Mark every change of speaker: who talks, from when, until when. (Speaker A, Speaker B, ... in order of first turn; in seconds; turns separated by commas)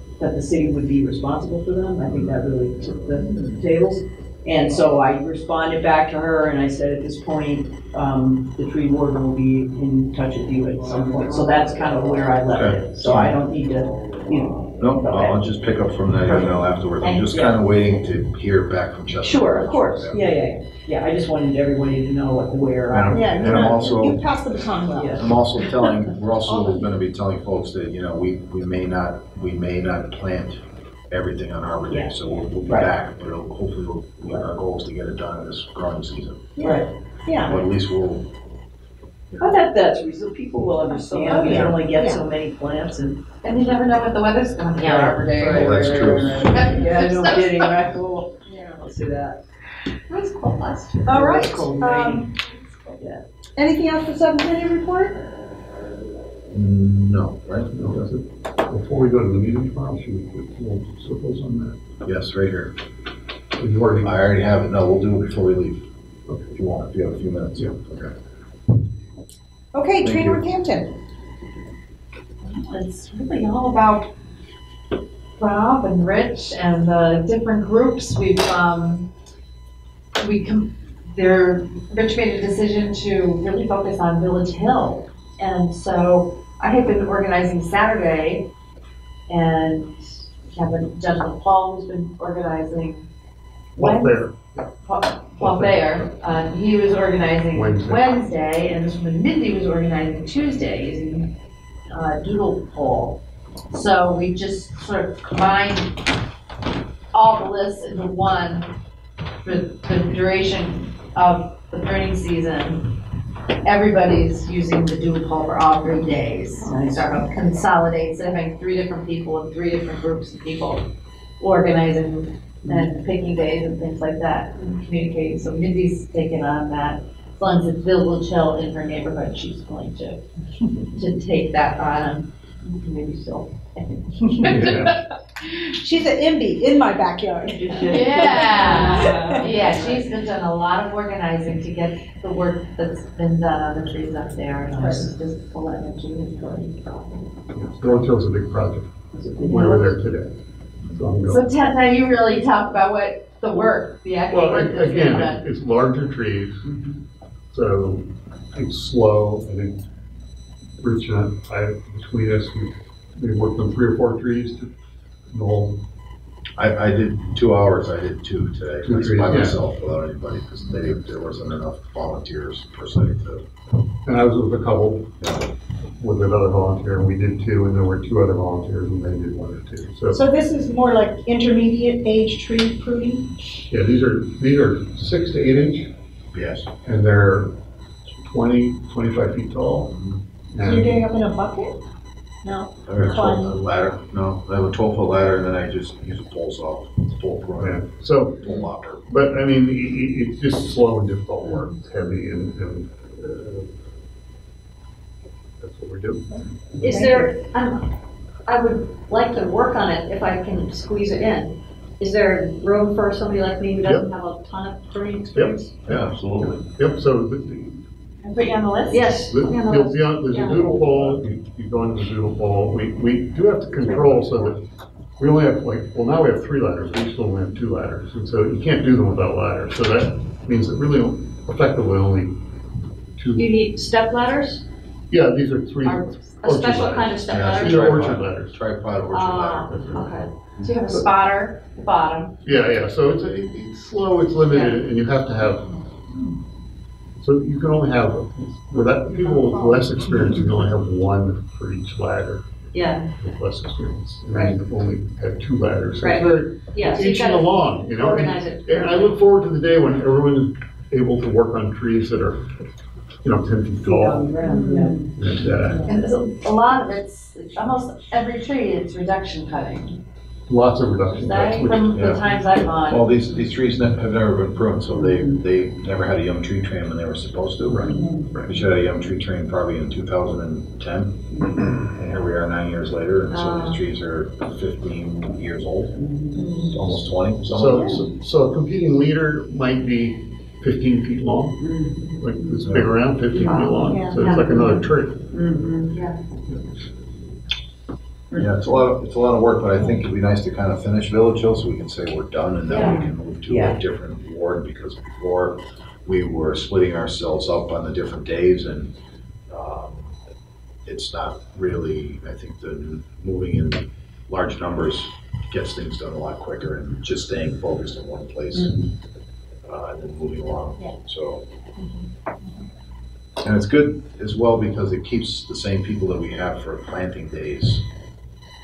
Speaker A: 0.2-15.4, Speaker B: 2.0-2.4, Speaker B: 12.5-13.4, Speaker B: 14.8-20.3, Speaker A: 16.2-16.5, Speaker C: 17.0-17.3, Speaker A: 17.3-17.6, Speaker A: 19.2-23.8, Speaker B: 22.9-24.3, Speaker D: 23.1-25.3, Speaker A: 24.9-25.4, Speaker B: 25.1-36.5, Speaker A: 31.9-32.9, Speaker D: 36.6-37.6, Speaker A: 36.6-36.9, Speaker B: 37.4-38.2, Speaker B: 39.3-39.6, Speaker A: 39.4-43.2, Speaker D: 40.9-42.2, Speaker C: 43.4-47.8, Speaker A: 44.8-49.4, Speaker B: 45.4-46.6, Speaker D: 48.5-48.9, Speaker C: 50.1-51.2, Speaker A: 51.0-52.3, Speaker D: 51.0-52.3, Speaker C: 52.6-52.9, Speaker A: 52.9-53.2, Speaker D: 53.6-55.2, Speaker B: 56.5-58.0, Speaker E: 57.7-61.8, Speaker B: 62.0-62.7, Speaker E: 63.6-64.1, Speaker B: 64.0-65.8, Speaker B: 66.4-68.1, Speaker D: 69.7-70.9, Speaker B: 70.0-70.4, Speaker C: 72.4-74.1, Speaker C: 75.4-79.1, Speaker C: 80.2-88.5, Speaker C: 89.3-93.0, Speaker C: 93.8-94.2, Speaker E: 93.8-94.7, Speaker C: 94.8-101.3, Speaker E: 95.3-96.1, Speaker E: 97.5-98.0, Speaker C: 101.9-103.2, Speaker C: 103.7-106.0, Speaker C: 107.1-108.7, Speaker C: 109.4-112.9, Speaker C: 113.6-120.9, Speaker A: 116.6-117.6, Speaker C: 121.4-130.2, Speaker C: 130.8-135.0, Speaker D: 134.2-134.8, Speaker E: 134.4-135.0, Speaker D: 135.5-139.5, Speaker A: 137.5-140.0, Speaker C: 137.8-147.3, Speaker F: 138.9-139.4, Speaker D: 144.8-145.1, Speaker E: 147.5-150.3, Speaker A: 149.1-150.0, Speaker E: 150.8-151.5, Speaker C: 151.3-155.4, Speaker E: 154.3-156.7, Speaker A: 156.6-157.0, Speaker E: 157.5-159.8, Speaker E: 160.8-164.7, Speaker E: 165.3-165.8, Speaker B: 166.6-173.4, Speaker E: 168.8-169.6, Speaker E: 174.1-175.1, Speaker B: 175.2-175.4, Speaker E: 175.9-180.2, Speaker D: 180.1-183.3, Speaker E: 183.7-185.9, Speaker B: 186.3-186.7, Speaker E: 186.8-187.5, Speaker E: 188.2-189.9, Speaker B: 189.9-190.2, Speaker E: 190.5-191.0, Speaker D: 190.6-191.8, Speaker D: 192.4-193.6, Speaker B: 192.9-197.8, Speaker E: 197.6-203.7, Speaker B: 198.4-199.0, Speaker E: 205.6-206.4, Speaker F: 206.8-207.8, Speaker D: 206.8-207.3, Speaker F: 208.4-215.8, Speaker E: 213.8-214.1, Speaker E: 215.3-217.8, Speaker B: 215.9-216.6, Speaker C: 218.2-219.1, Speaker F: 218.9-220.8, Speaker E: 219.3-224.6, Speaker E: 225.2-232.4, Speaker E: 233.2-233.5, Speaker F: 233.3-234.6, Speaker E: 235.1-238.6, Speaker F: 236.4-238.2, Speaker B: 237.3-240.1, Speaker F: 239.1-240.3, Speaker E: 239.7-240.1, Speaker C: 240.6-242.3, Speaker E: 242.4-245.7, Speaker E: 247.2-252.4, Speaker D: 249.1-250.3, Speaker F: 252.7-253.1, Speaker E: 253.2-262.6, Speaker F: 254.3-254.6, Speaker F: 256.0-259.2, Speaker E: 263.2-264.4, Speaker A: 263.8-265.1, Speaker F: 264.4-265.0, Speaker E: 265.1-265.9, Speaker C: 265.9-270.0, Speaker E: 270.5-272.0, Speaker C: 271.1-273.1, Speaker B: 271.9-272.2, Speaker B: 272.8-277.9, Speaker A: 274.9-275.4, Speaker E: 277.7-278.6, Speaker A: 277.9-278.2, Speaker B: 278.4-281.2, Speaker A: 281.3-281.6, Speaker B: 281.9-286.0, Speaker F: 283.3-283.8, Speaker A: 286.0-286.6, Speaker F: 286.5-286.7, Speaker B: 286.7-288.0, Speaker E: 286.8-291.7, Speaker A: 291.6-292.7, Speaker E: 292.2-295.2, Speaker B: 292.6-292.9, Speaker A: 293.3-296.0, Speaker D: 293.9-294.2, Speaker A: 298.3-298.7, Speaker B: 298.3-308.9, Speaker A: 302.7-303.8, Speaker B: 309.5-310.1, Speaker B: 310.8-318.8, Speaker A: 318.5-318.8, Speaker B: 319.6-321.4, Speaker B: 323.4-327.9